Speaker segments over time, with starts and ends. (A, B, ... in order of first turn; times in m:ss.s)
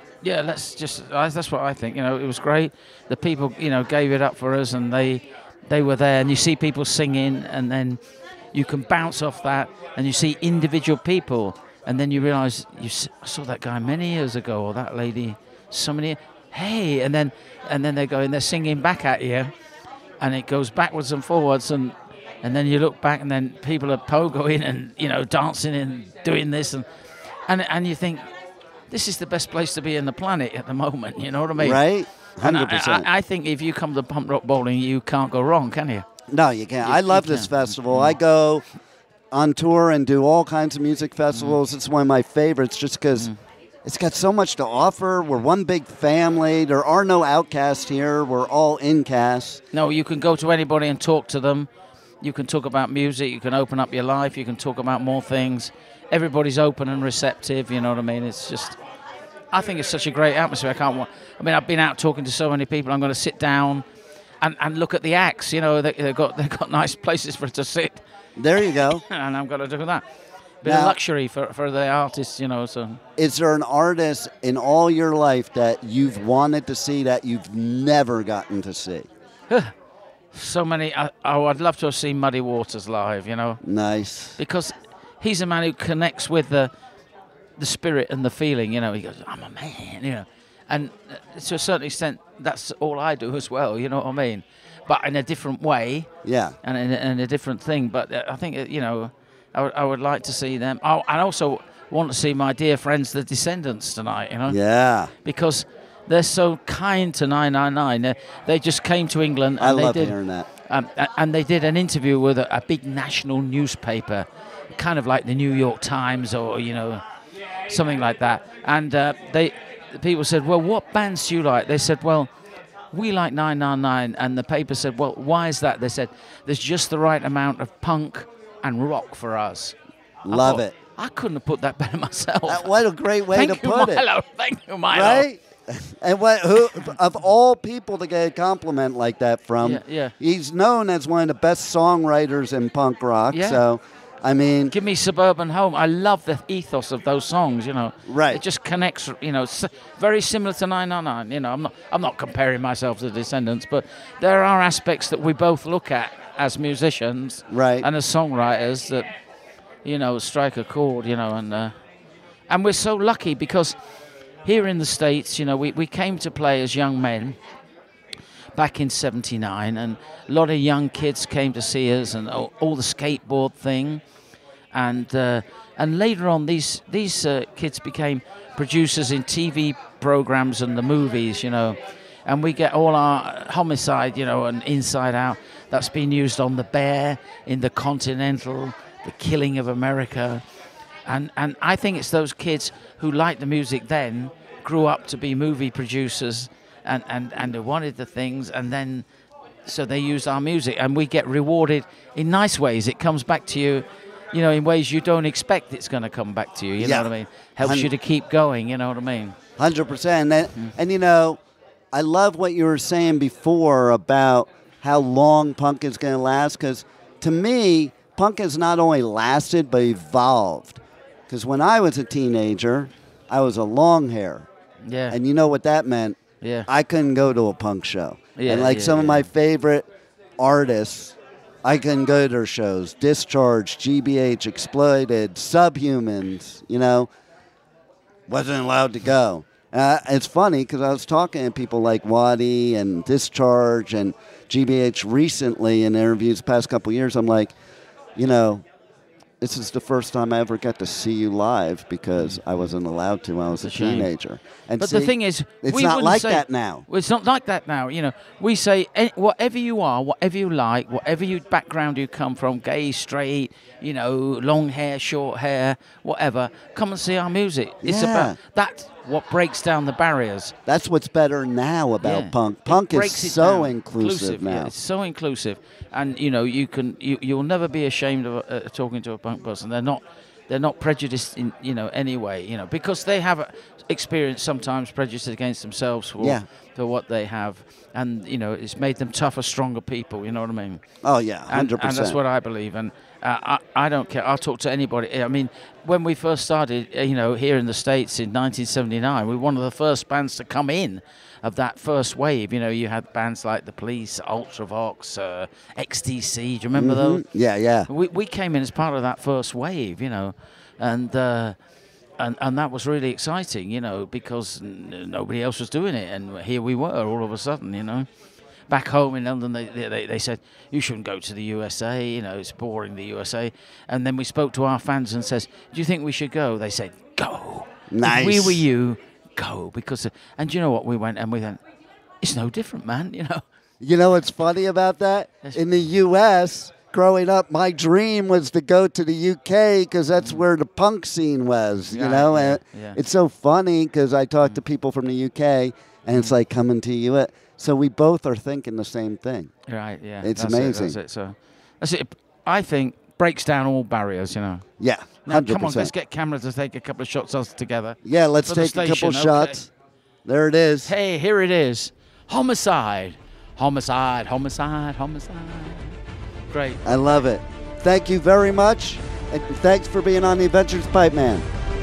0:00.2-0:08.0 A
0:08.5-0:19.5 A
0:20.2-0:26.8 A
0:27.5-0:28.2 A
0:28.9-0:31.8 A
0:31.6-0:33.1 B
0:32.4-0:36.0 A
0:36.3-0:38.6 B
0:36.8-0:38.2 A
0:39.3-0:43.3 B
0:41.3-0:41.6 A
0:43.8-0:49.6 B
0:49.7-0:51.7 A
0:52.2-0:58.8 A
0:59.5-1:03.8 A
1:04.4-1:08.0 A
1:08.4-1:09.0 B
1:08.6-1:10.0 A
1:10.6-1:13.0 A
1:10.6-1:11.0 B
1:13.2-1:19.1 B
1:20.3-1:23.6 A
1:23.6-1:24.4 B
1:24.4-1:26.7 A
1:27.6-1:36.1 A
1:36.2-1:36.6 B
1:36.6-1:44.6 A
1:44.5-1:45.1 B
1:45.2-1:57.0 A
1:49.6-1:50.5 B
1:57.7-2:02.3 A
2:02.9-2:09.7 A
2:10.2-2:10.7 B
2:10.3-2:12.7 A
2:12.5-2:14.0 B
2:13.3-2:15.3 A
2:14.9-2:24.7 B
2:19.6-2:20.1 A
2:23.3-2:23.6 A
2:24.7-2:39.1 A
2:28.0-2:28.4 B
2:37.5-2:37.9 B
2:39.8-2:41.7 A
2:42.5-2:43.8 A
2:44.4-2:47.4 A
2:48.5-2:54.0 A
2:54.7-3:10.4 A
3:11.0-3:19.0 A
3:19.6-3:29.4 A
3:26.8-3:27.9 B
3:29.6-3:31.4 B
3:31.9-3:44.4 B
3:44.8-3:45.2 A
3:45.1-3:49.9 B
3:46.4-3:46.7 A
3:48.4-3:49.3 A
3:50.4-3:57.1 B
3:58.3-4:07.5 B
4:08.2-4:08.6 B
4:09.4-4:16.8 B
4:12.2-4:12.4 A
4:13.5-4:14.1 A
4:14.8-4:30.5 A
4:27.8-4:28.4 B
4:30.7-4:34.7 B
4:32.0-4:50.8 A
4:46.2-4:46.4 B
4:51.0-4:52.2 B
4:51.5-5:07.2 A
5:06.7-5:07.9 B
5:07.9-5:11.6 A
5:12.2-5:18.1 A
5:18.7-5:31.6 A
5:27.9-5:28.6 B
5:32.2-5:33.4 A
5:33.8-5:49.5 B
5:40.2-5:40.4 A
5:41.9-5:43.0 A
5:49.7-5:54.6 A
5:50.2-5:51.0 B
5:54.8-5:55.9 B
5:55.2-5:59.6 A
5:58.0-5:59.7 B
6:00.2-6:00.9 B
6:00.8-6:06.0 A
6:06.5-6:06.8 A
6:06.8-6:11.4 B